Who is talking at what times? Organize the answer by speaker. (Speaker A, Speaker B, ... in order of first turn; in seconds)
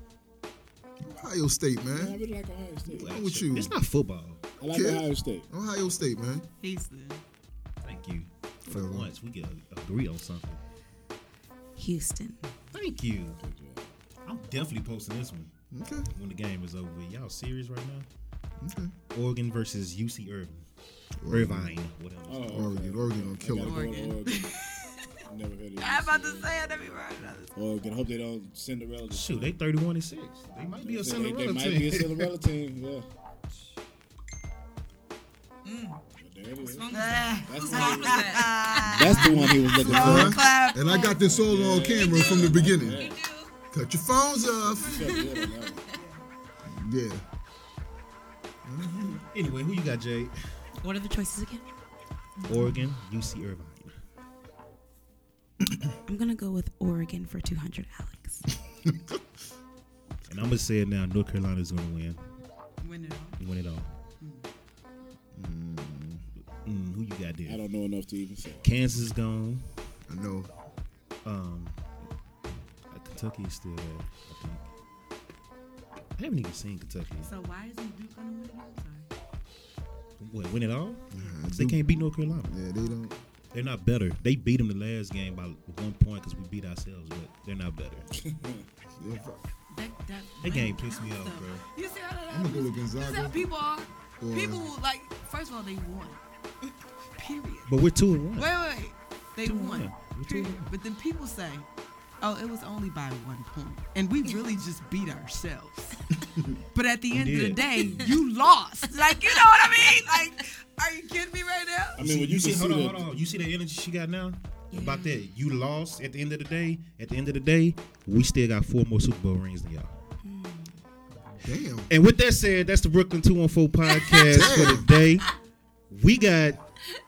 Speaker A: 1.0-2.2, 3.0-3.7, 4.6-6.5, 8.7-9.1, 15.7-16.1, 18.6-18.9, 21.2-21.7, 22.5-24.0, 39.8-43.1, 43.7-45.1, 46.6-47.2, 48.6-49.2, 55.7-55.9, 58.9-59.2, 65.3-66.2, 70.1-70.5, 81.1-83.1, 89.0-89.4, 92.3-93.5, 94.2-94.7, 121.4-121.9, 124.3-124.9
Speaker B: 1.9-3.1, 4.6-5.5, 13.4-13.9, 22.3-24.5, 25.3-29.6, 30.8-33.0, 36.2-36.9, 37.5-40.4, 41.1-43.2, 44.6-45.8, 67.5-68.7, 88.1-88.7, 112.0-113.0
Speaker C: 2.9-4.5, 7.8-10.6, 12.7-13.4, 14.3-15.5, 16.1-18.1, 19.1-20.7, 21.3-22.8, 29.1-32.3, 39.4-40.3, 49.3-50.4, 52.5-53.9, 60.3-62.2, 63.4-63.9, 66.6-67.6, 68.6-69.7, 71.2-71.8, 72.9-74.7, 76.2-77.3, 80.2-82.6, 83.5-88.1, 90.4-91.6, 97.7-98.5, 99.4-100.7, 107.1-108.1, 112.0-120.0, 121.9-125.3, 125.9-126.6
Speaker D: 6.6-7.2, 23.6-25.0, 25.8-27.6, 36.9-41.2, 45.9-46.2, 62.8-63.4, 64.2-64.5, 77.2-79.1, 82.7-83.2, 89.7-96.2, 97.2-97.7, 98.4-101.7, 102.2-106.0, 106.7-112.0
Speaker E: 11.8-12.5, 35.6-36.0, 36.6-41.1, 42.0-43.5, 44.9-45.7, 50.8-51.7, 52.4-52.7, 56.1-58.5, 114.7-115.2, 120.2-120.8, 123.9-124.3